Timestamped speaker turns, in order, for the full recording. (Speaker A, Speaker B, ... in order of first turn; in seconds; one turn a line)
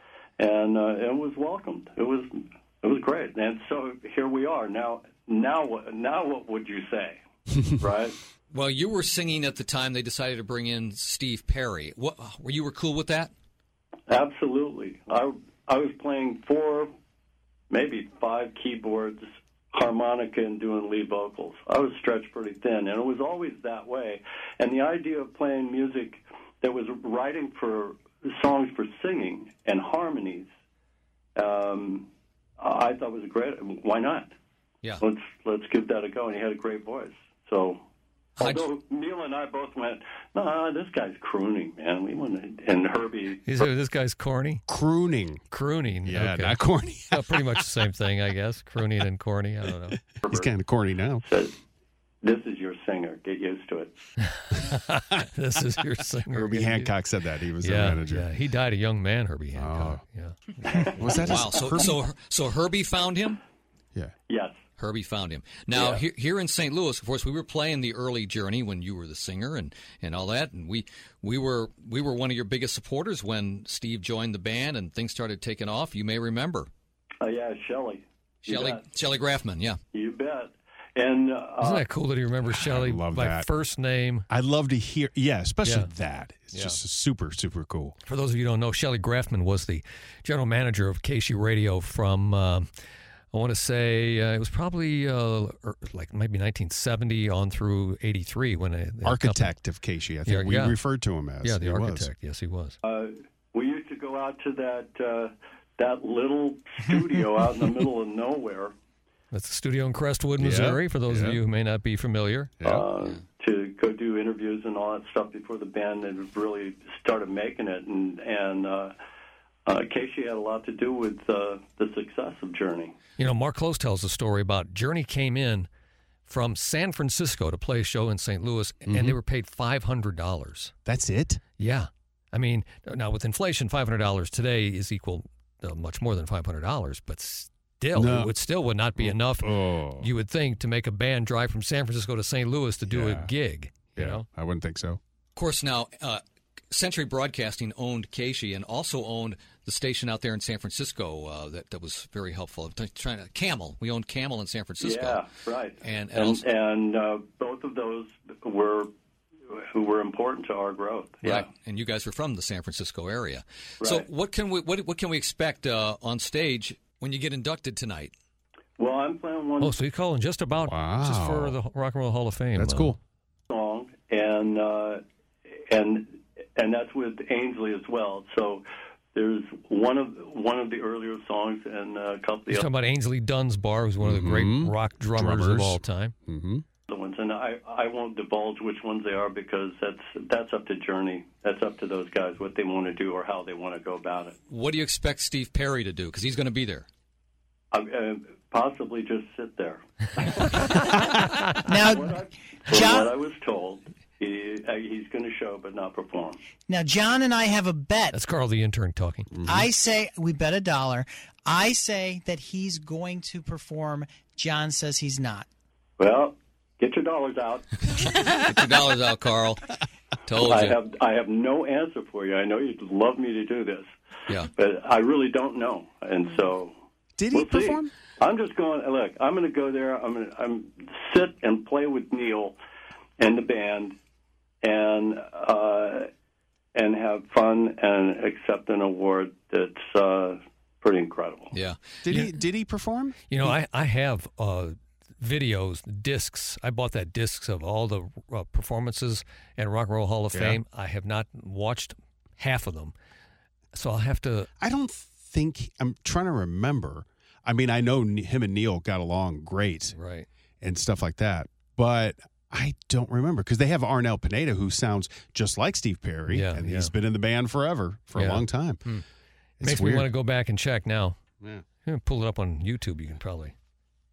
Speaker A: 0.4-7.2
Speaker A: 7.8-8.2
Speaker B: 8.5-13.3
Speaker A: 14.1-16.9
Speaker A: 17.7-30.5
Speaker A: 31.4-32.1
Speaker A: 32.6-34.3
Speaker A: 35.0-37.8
Speaker B: 38.4-38.6
Speaker A: 38.4-43.7
Speaker C: 43.5-44.6
Speaker D: 44.7-45.4
Speaker C: 45.5-46.6
Speaker D: 46.0-47.6
Speaker C: 47.1-50.0
Speaker A: 50.2-50.5
Speaker D: 50.3-51.2
Speaker A: 51.2-51.5
Speaker A: 52.2-54.0
Speaker C: 54.5-56.9
Speaker D: 56.3-58.3
Speaker C: 57.6-61.2
Speaker D: 59.5-60.0
Speaker D: 60.6-61.9
Speaker B: 61.3-63.4
Speaker A: 64.3-64.6
Speaker B: 64.8-76.7
Speaker A: 77.2-78.8
Speaker B: 78.4-79.8
Speaker A: 79.9-81.8
Speaker C: 81.6-84.2
Speaker D: 82.5-83.5
Speaker D: 84.3-88.0
Speaker C: 85.6-85.9
Speaker B: 86.5-86.8
Speaker C: 88.0-92.7
Speaker C: 93.3-99.5
Speaker D: 99.0-102.1
Speaker C: 100.2-100.8
Speaker C: 101.4-102.8
Speaker A: 102.8-108.7
Speaker C: 109.3-112.5
Speaker D: 110.4-111.4
Speaker D: 112.6-112.9
Speaker A: 112.6-118.9
Speaker A: 119.7-122.9
Speaker C: 123.2-125.7
Speaker C: 126.2-130.7
Speaker D: 128.9-129.2
Speaker D: 130.8-131.4
Speaker C: 131.6-144.2
Speaker D: 137.9-138.3
Speaker D: 139.0-140.1
Speaker D: 142.9-143.3
Speaker D: 143.9-145.0
Speaker B: 145.3-155.2
Speaker A: 154.8-158.9
Speaker B: 155.8-156.5
Speaker A: 159.5-161.4
Speaker B: 161.2-168.1
Speaker A: 168.8-169.7
Speaker C: 169.6-173.0
Speaker D: 170.6-171.6
Speaker D: 172.6-173.0
Speaker A: 173.5-175.0
Speaker A: 175.7-182.6
Speaker C: 182.5-186.1
Speaker D: 184.0-186.6
Speaker A: 186.9-194.3
Speaker B: 194.5-196.8
Speaker A: 197.7-200.7
Speaker E: 201.7-202.1
Speaker A: 201.9-206.4
Speaker E: 202.7-203.1
Speaker E: 206.7-208.2
Speaker C: 208.1-209.3
Speaker E: 209.4-215.5
Speaker A: 216.0-217.6
Speaker B: 218.4-219.7
Speaker B: 220.2-220.8
Speaker A: 220.4-223.9
Speaker A: 224.6-226.8
Speaker D: 227.2-227.9
Speaker A: 227.3-232.6
Speaker A: 233.2-233.9
Speaker A: 234.6-236.1
Speaker A: 236.7-241.5
Speaker B: 241.5-241.8
Speaker D: 242.0-243.5
Speaker C: 243.3-252.9
Speaker D: 250.3-250.6
Speaker C: 253.7-254.5
Speaker D: 254.6-259.9
Speaker C: 259.9-260.3
Speaker D: 260.6-268.8
Speaker C: 266.3-266.9
Speaker C: 268.1-269.0
Speaker D: 269.6-270.1
Speaker C: 269.6-271.2
Speaker C: 271.8-273.5